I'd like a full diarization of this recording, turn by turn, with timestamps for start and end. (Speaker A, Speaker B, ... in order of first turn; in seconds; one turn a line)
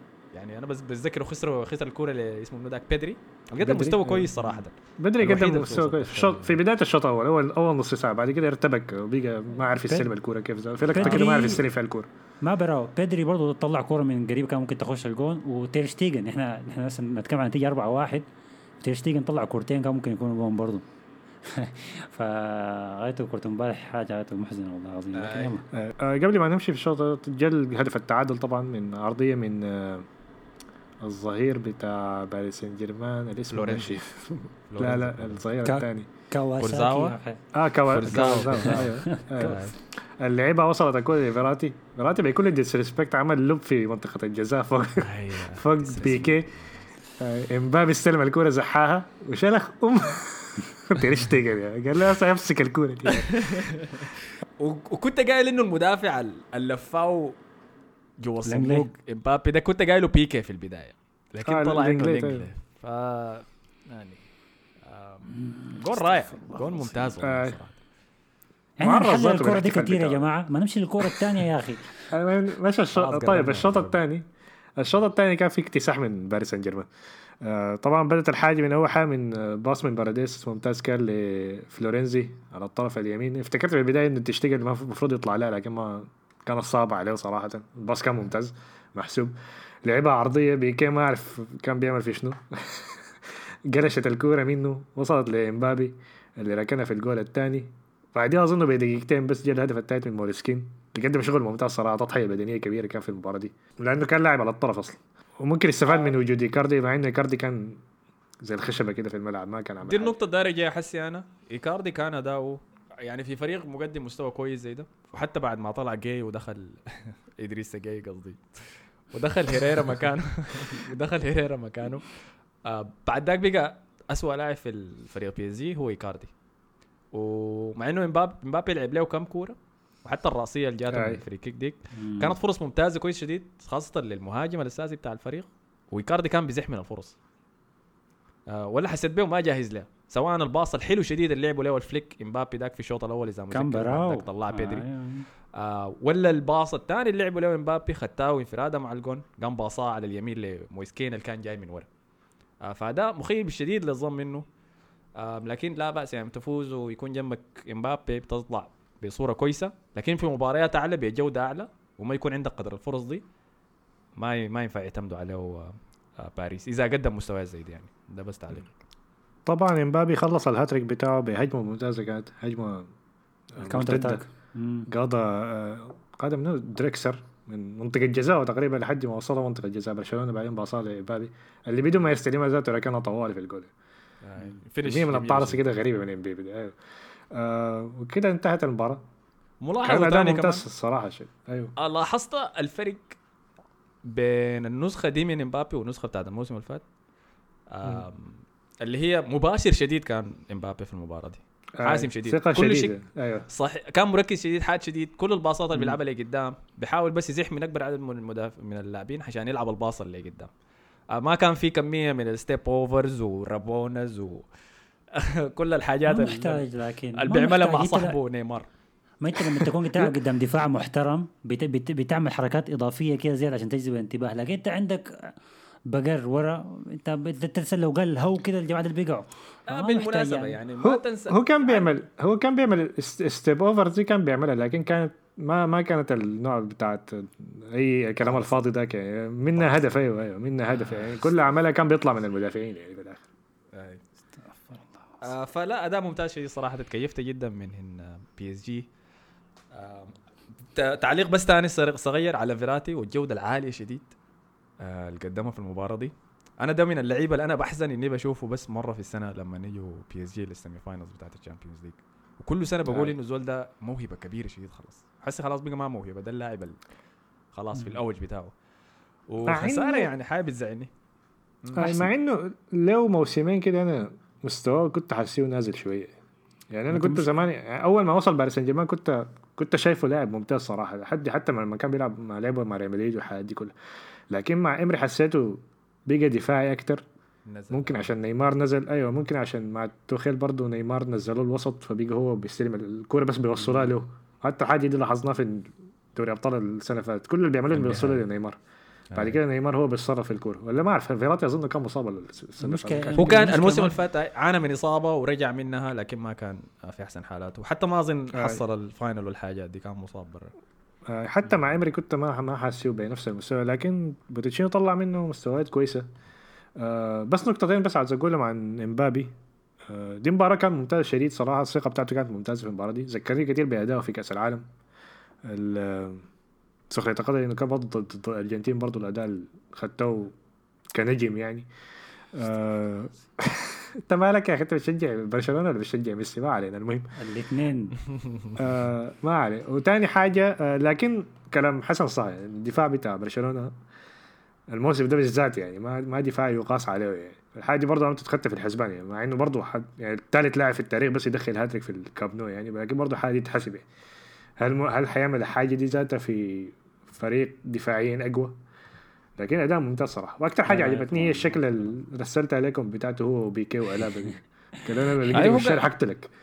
Speaker A: 0.3-6.6
Speaker B: 3.6-4.3
Speaker B: 5.0-12.1
Speaker A: 10.9-11.2
Speaker C: 10.9-11.6
Speaker C: 12.4-18.2
Speaker C: 18.8-20.8
Speaker C: 21.4-25.7
Speaker A: 25.1-25.6
Speaker B: 25.7-30.1
Speaker B: 31.0-36.1
Speaker A: 33.5-34.0
Speaker A: 34.7-35.4
Speaker C: 35.6-37.4
Speaker A: 36.6-37.1
Speaker B: 37.5-46.5
Speaker A: 37.9-39.7
Speaker C: 38.1-39.5
Speaker A: 45.0-46.9
Speaker B: 47.2-53.4
Speaker A: 53.1-57.4
Speaker A: 58.2-64.2
Speaker C: 58.4-58.9
Speaker B: 61.4-62.5
Speaker A: 64.8-67.8
Speaker C: 65.4-67.1
Speaker B: 67.2-67.6
Speaker C: 68.8-72.0
Speaker B: 68.8-70.3
Speaker B: 72.1-74.2
Speaker A: 72.9-74.0
Speaker B: 74.8-76.9
Speaker B: 77.4-93.1
Speaker B: 93.7-107.8
Speaker B: 108.4-110.2
Speaker A: 109.8-122.1
Speaker A: 122.6-126.3
Speaker A: 127.1-137.2
Speaker B: 130.9-131.2
Speaker C: 131.9-132.3
Speaker A: 138.5-144.9
Speaker C: 143.5-145.3
Speaker A: 145.5-151.9
Speaker A: 152.6-154.4
Speaker A: 155.2-163.2
Speaker A: 164.2-168.7
Speaker B: 169.5-172.9
Speaker B: 173.5-174.2
Speaker C: 173.6-174.9
Speaker B: 174.9-183.7
Speaker A: 184.2-185.7
Speaker B: 184.8-186.8
Speaker B: 187.3-189.0
Speaker A: 189.6-190.6
Speaker B: 189.8-191.7
Speaker A: 191.8-193.2
Speaker A: 194.0-196.8
Speaker A: 197.7-203.0
Speaker B: 201.8-203.4
Speaker A: 203.5-210.5
Speaker A: 211.1-214.4
Speaker A: 215.1-216.6
Speaker C: 216.1-218.2
Speaker A: 217.2-218.7
Speaker C: 219.2-225.3
Speaker A: 219.3-219.7
Speaker C: 225.9-230.6
Speaker A: 229.7-231.9
Speaker B: 230.8-243.2
Speaker A: 238.3-238.5
Speaker A: 243.7-244.0
Speaker A: 245.2-248.8
Speaker A: 249.7-250.1
Speaker A: 250.7-254.1
Speaker A: 254.8-266.8
Speaker B: 262.8-263.1
Speaker A: 267.5-268.5
Speaker A: 269.3-270.9
Speaker B: 269.5-270.1
Speaker B: 271.7-276.1
Speaker C: 271.8-272.1
Speaker B: 276.7-283.7
Speaker C: 276.9-277.3
Speaker B: 284.3-287.0
Speaker A: 287.4-288.1
Speaker B: 287.7-298.6
Speaker A: 297.7-298.2
Speaker A: 299.1-299.4
Speaker B: 299.1-303.5
Speaker C: 302.6-304.0
Speaker A: 303.1-310.5
Speaker B: 308.3-308.6
Speaker B: 311.1-316.1
Speaker B: 316.8-324.6
Speaker B: 325.4-326.3
Speaker B: 326.9-330.4
Speaker B: 330.9-331.7
Speaker B: 332.3-337.1
Speaker C: 337.2-338.0
Speaker A: 338.1-338.6
Speaker B: 338.5-343.7
Speaker B: 344.7-353.9
Speaker B: 354.6-358.6
Speaker B: 359.4-366.3
Speaker A: 360.7-361.5
Speaker C: 360.7-361.6
Speaker A: 365.3-365.9